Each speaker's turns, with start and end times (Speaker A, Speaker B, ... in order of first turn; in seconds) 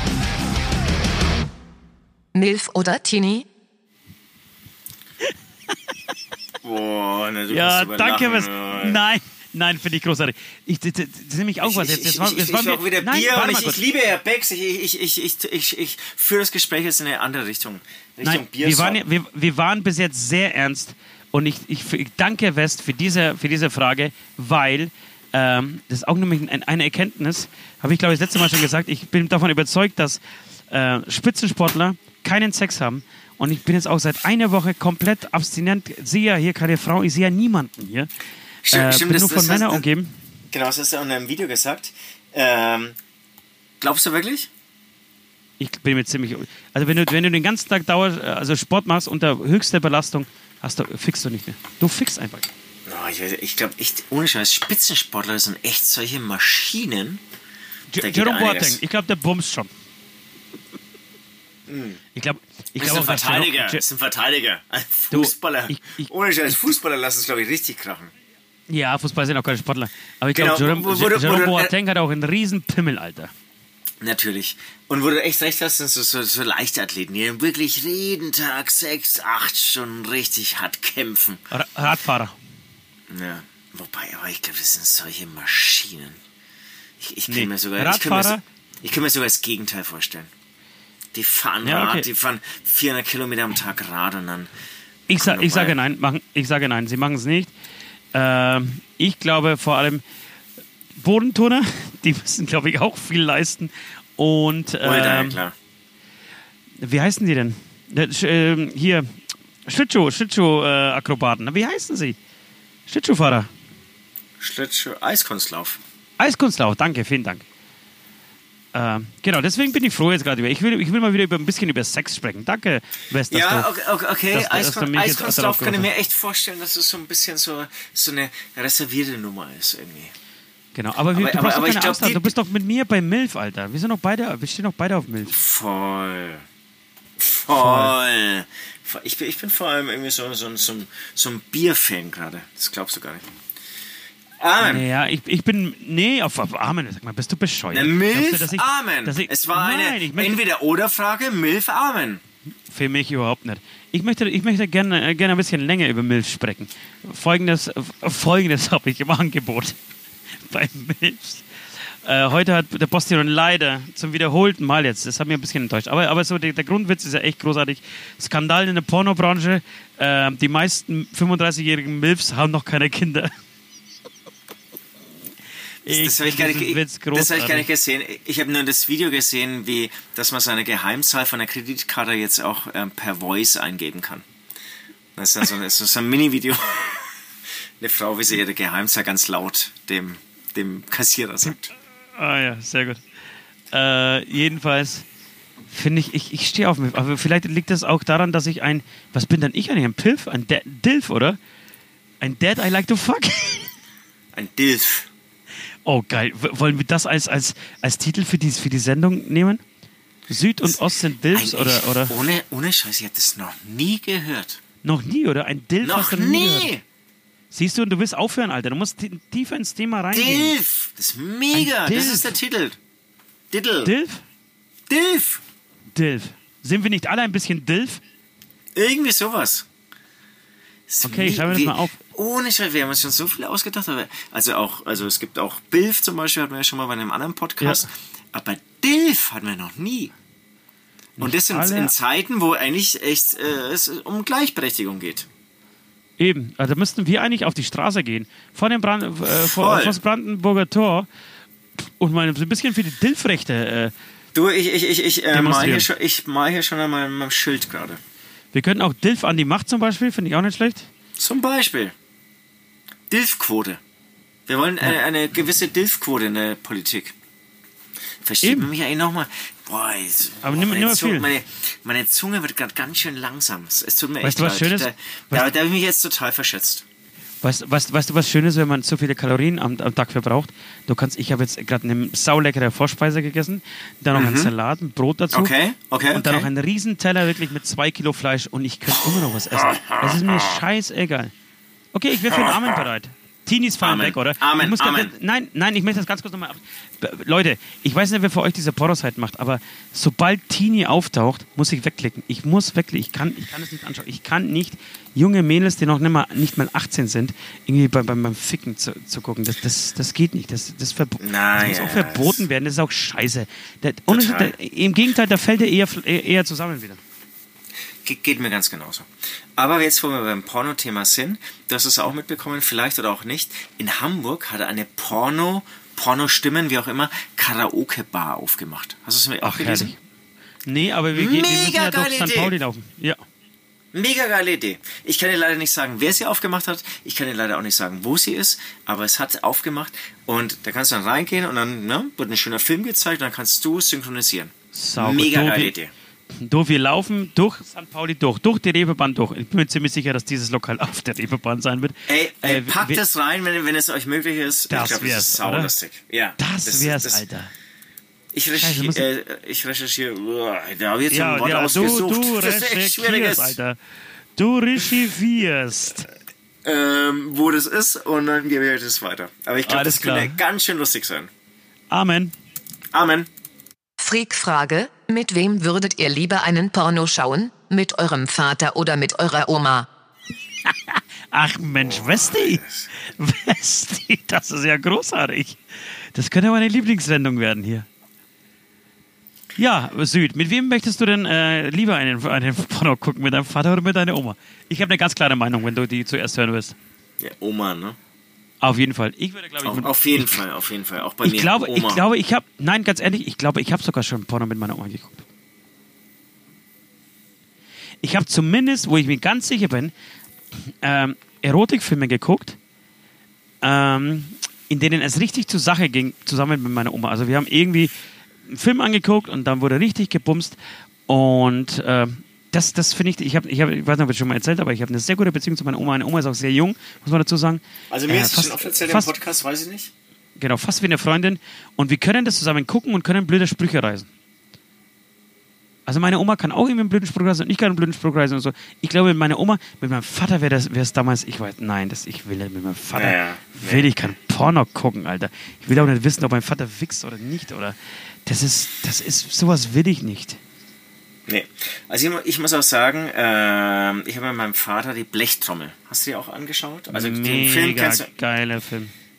Speaker A: 2.4-3.5, 374.0-379.9
Speaker B: 6.6-9.0, 11.6-19.0, 38.6-39.8, 40.5-43.0, 43.8-44.5, 52.9-57.2, 58.0-58.8, 61.7-62.0, 62.8-68.1, 70.3-71.7, 74.0-81.4, 83.1-86.2, 87.0-90.3, 91.1-94.5, 95.1-95.8, 104.8-105.5, 114.4-115.8, 123.3-130.1, 131.1-132.3, 135.3-136.4, 137.2-143.3, 144.4-144.9, 147.7-152.2, 175.9-184.3, 185.2-187.2, 187.8-191.7, 204.3-205.1, 211.3-214.6, 215.8-216.8, 220.1-222.8, 223.5-223.9, 224.9-225.4, 228.8-229.7, 230.9-240.1, 241.2-245.3, 249.3-250.0, 254.3-258.0, 261.2-261.9, 263.1-263.8, 264.5-267.1, 268.2-276.9, 284.1-284.5, 285.3-286.5, 289.5-290.6, 292.3-292.8, 293.8-295.1, 311.2-312.5, 314.1-314.5, 318.0-329.9, 331.1-332.6, 333.9-345.9, 352.1-357.2, 358.3-363.6, 366.6-371.3, 372.9-373.3, 381.9-382.9, 397.2-398.0, 399.6-402.0, 427.9-429.9, 442.9-443.9, 451.3-458.1
Speaker C: 7.5-13.8, 18.2-30.2, 30.7-38.1, 38.7-40.2, 45.6-52.5, 57.9-59.7, 62.1-63.8, 65.1-66.1, 68.7-73.3, 81.5-82.3, 87.3-88.4, 91.6-92.1, 95.1-97.5, 98.1-100.0, 101.0-105.4, 106.8-109.1, 109.7-112.2, 112.9-113.5, 116.2-117.5, 118.7-123.7, 124.3-125.9, 130.8-135.4, 137.5-137.9, 144.6-150.4, 152.7-159.8, 160.5-161.4, 162.1-173.3, 175.8-177.7, 192.2-193.0, 193.7-195.1, 195.7-201.4, 202.2-203.7, 205.9-209.6, 210.3-212.2, 214.8-216.7, 217.5-220.6, 221.5-222.4, 223.8-224.2, 225.9-228.0, 231.0-232.0, 241.2-241.9, 246.2-251.1, 251.9-253.9, 255.3-255.9, 258.5-260.9, 268.4-268.7, 270.4-271.3, 274.2-275.5, 277.4-285.5, 286.1-291.3, 291.9-317.0, 329.4-330.0, 330.7-333.2, 344.7-345.8, 346.4-353.0, 354.7-355.7, 356.4-357.5, 358.6-359.1, 361.1-363.8, 364.4-366.1, 369.7-370.4, 371.9-372.3, 380.7-385.6, 386.1-387.9, 389.6-396.8, 398.6-400.4, 401.2-405.3, 408.0-409.9, 410.6-412.6, 413.6-417.9, 418.5-420.6, 421.1-429.1, 430.4-434.1, 435.9-450.4, 456.9-458.9